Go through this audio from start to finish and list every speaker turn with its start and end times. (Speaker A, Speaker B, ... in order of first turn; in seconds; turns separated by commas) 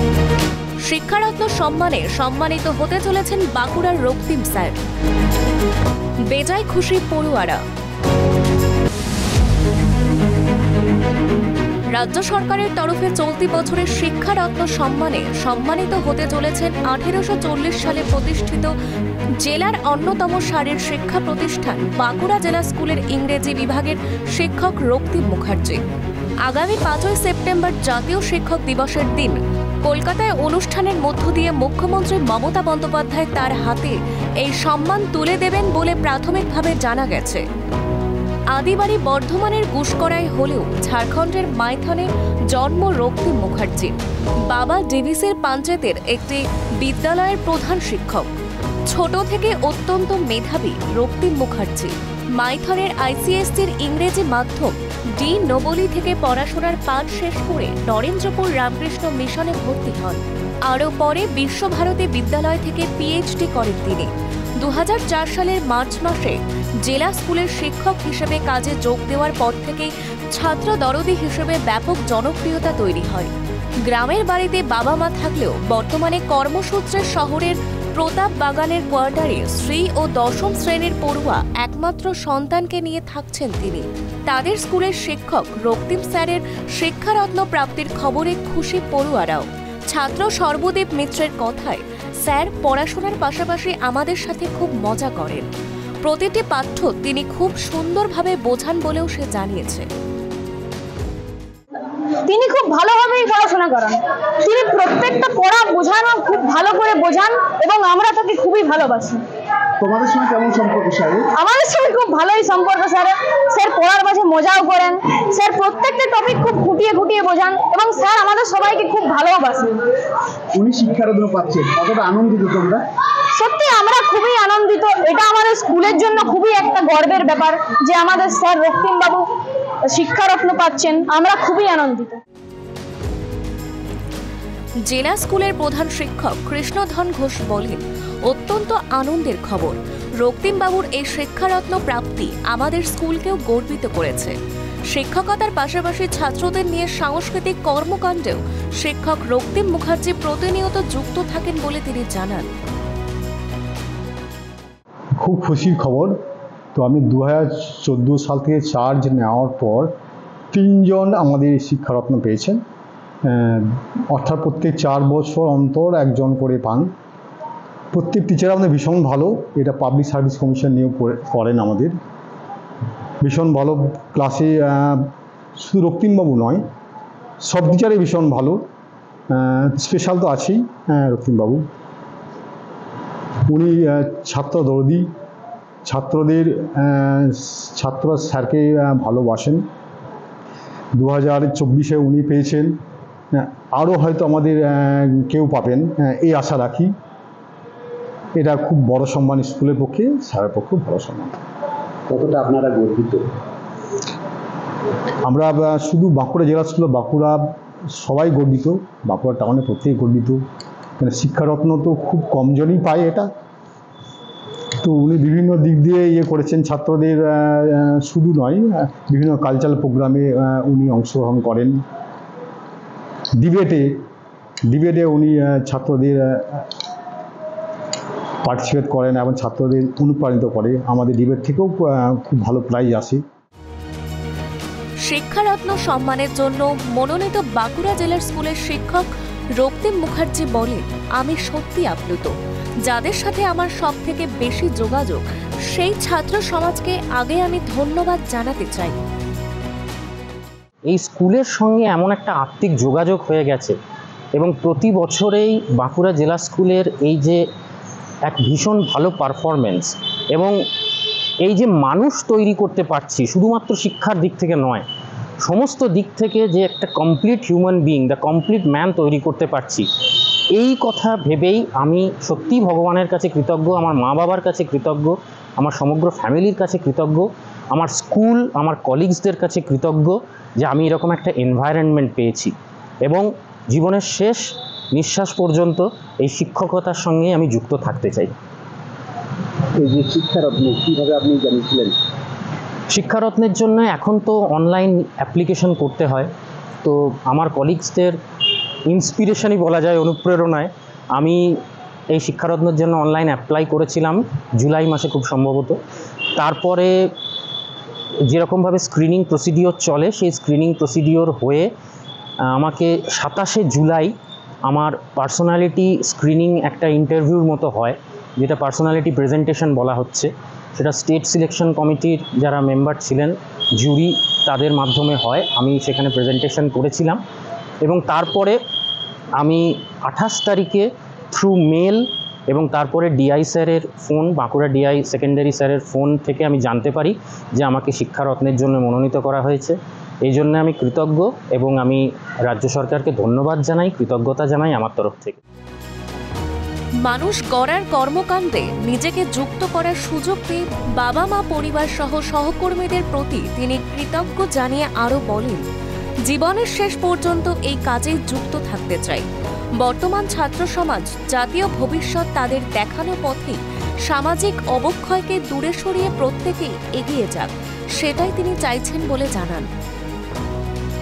Speaker A: 0.9-4.8, Speaker A: 6.3-7.6, Speaker A: 11.9-18.7, Speaker A: 19.4-25.8, Speaker A: 26.4-37.4, Speaker A: 38.5-44.0, Speaker A: 44.5-48.3, Speaker A: 48.9-73.3, Speaker A: 73.9-95.5, Speaker A: 96.0-99.9, Speaker B: 102.2-109.2, Speaker C: 109.8-111.3, Speaker B: 111.4-119.8, Speaker C: 120.6-122.8, Speaker B: 123.3-129.3, Speaker B: 129.9-132.2, Speaker A: 134.9-144.3, Speaker A: 144.9-152.5, Speaker D: 155.2-156.2, Speaker D: 156.8-159.9, Speaker D: 160.5-162.6, Speaker D: 163.2-166.9, Speaker D: 167.9-172.0, Speaker D: 173.2-176.6, Speaker D: 177.4-178.6, Speaker D: 179.3-181.6, Speaker D: 183.5-185.1, Speaker D: 185.8-189.7, Speaker D: 191.0-192.7, Speaker D: 193.3-196.9, Speaker D: 198.4-201.3, Speaker C: 202.1-203.2, Speaker D: 205.2-210.4, Speaker D: 211.0-213.3, Speaker D: 214.8-221.8, Speaker D: 223.4-224.0, Speaker D: 224.7-226.7, Speaker D: 228.4-233.2, Speaker A: 235.1-242.3, Speaker A: 242.9-249.0, Speaker E: 250.9-253.8, Speaker E: 254.4-257.4, Speaker E: 258.3-260.6, Speaker E: 261.4-264.9, Speaker E: 265.4-282.5, Speaker E: 283.1-288.3, Speaker C: 289.8-292.0, Speaker E: 292.9-296.3, Speaker E: 296.8-298.2, Speaker E: 298.9-301.5, Speaker E: 302.1-305.8, Speaker E: 306.4-306.9, Speaker E: 308.3-311.7, Speaker E: 312.5-314.1, Speaker E: 314.7-327.2, Speaker E: 327.9-328.6, Speaker E: 329.4-345.4, Speaker A: 347.0-355.6, Speaker A: 356.3-359.2, Speaker A: 359.8-369.7